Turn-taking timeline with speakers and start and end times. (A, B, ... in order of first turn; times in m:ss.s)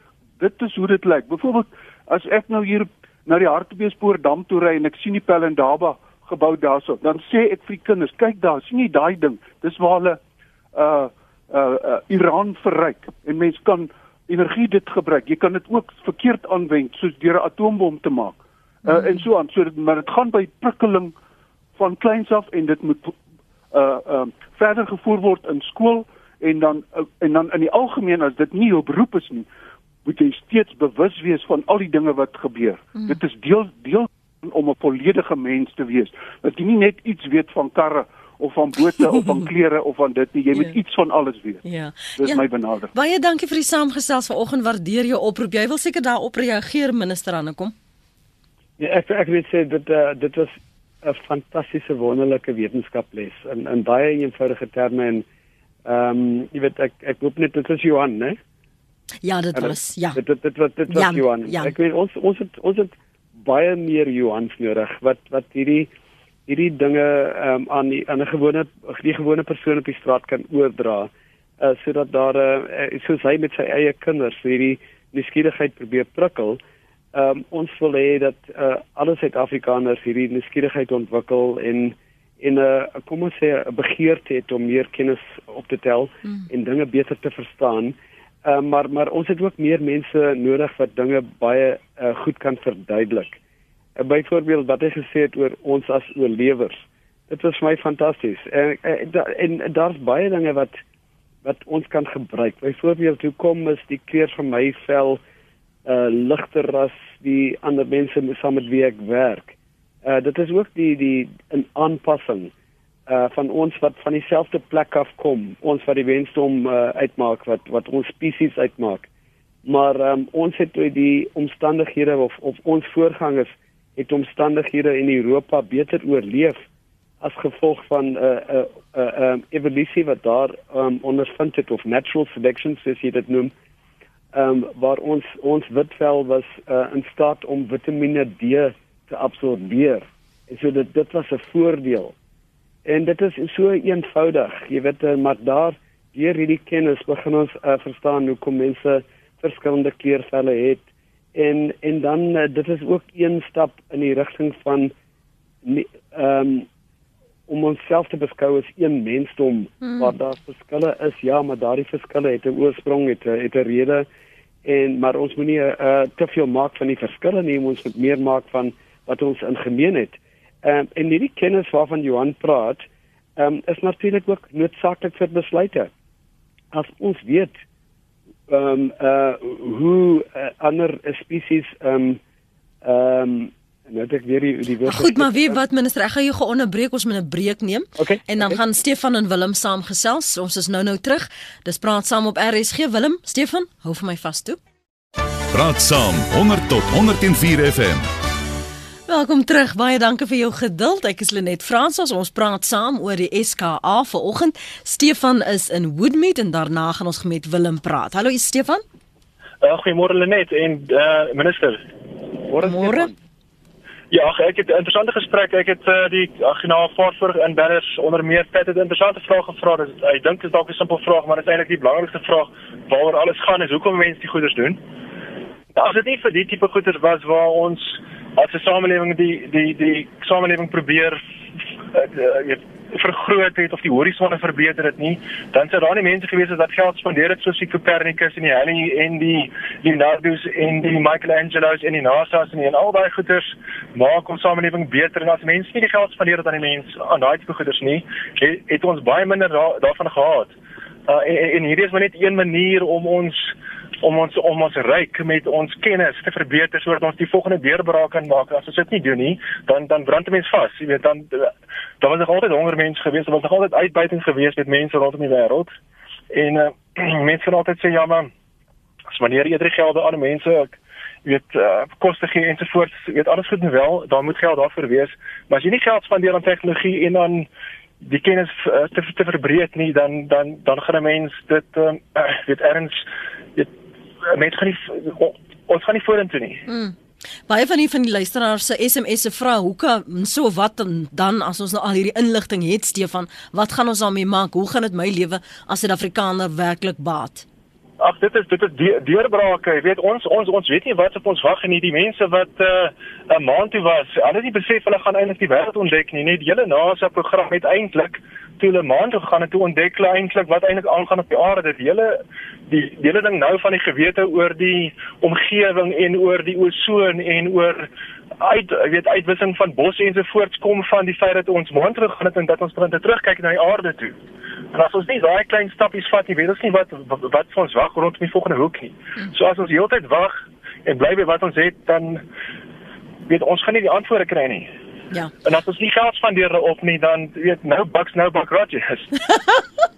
0:00.4-0:10.2 A
0:10.7-0:21.1 A
0:21.8-0:23.2 A
0:23.7-0:29.5 A
0:30.0-0:41.6 A
0:41.6-0:47.7 B
0:42.2-0:42.9 A
0:48.8-0:55.3 C
0:55.8-0:58.4 C
0:59.2-1:00.2 B
0:59.6-1:05.9 C
1:00.9-1:01.7 B
1:06.5-1:16.6 C
1:17.1-1:33.4 C
1:34.0-1:40.8 C
1:41.4-1:45.2 C
1:45.8-1:52.5 C
1:53.1-1:59.1 C
1:59.6-2:06.6 C
2:07.2-2:13.5 C
2:14.3-2:22.2 C
2:22.8-2:30.8 C
2:31.4-2:34.9 C
2:35.6-2:36.7 C
2:37.5-2:44.1 C
2:39.8-2:40.1 B
2:44.6-2:52.8 C
2:53.4-2:55.9 C
2:56.7-2:57.6 C
2:58.5-3:02.2 C
3:02.8-3:05.6 C
3:04.9-3:14.6 B
3:08.0-3:08.6 C
3:15.5-3:18.0 D
3:19.1-3:28.8 B
3:29.6-3:31.8 E
3:32.5-3:33.2 C
3:32.6-3:33.1 B
3:34.1-3:44.8 E
3:45.7-3:51.2 E
3:51.9-4:10.6 E
4:11.1-4:25.7 E
4:26.3-4:28.3 E
4:29.1-4:37.5 E
4:38.0-4:43.7 E
4:44.2-4:46.6 E
4:46.7-4:47.0 B
4:47.5-4:57.5 B
4:58.0-5:24.2 E
5:24.7-5:32.2 E
5:33.3-5:34.7 E
5:35.4-5:39.1 E
5:39.3-5:39.6 B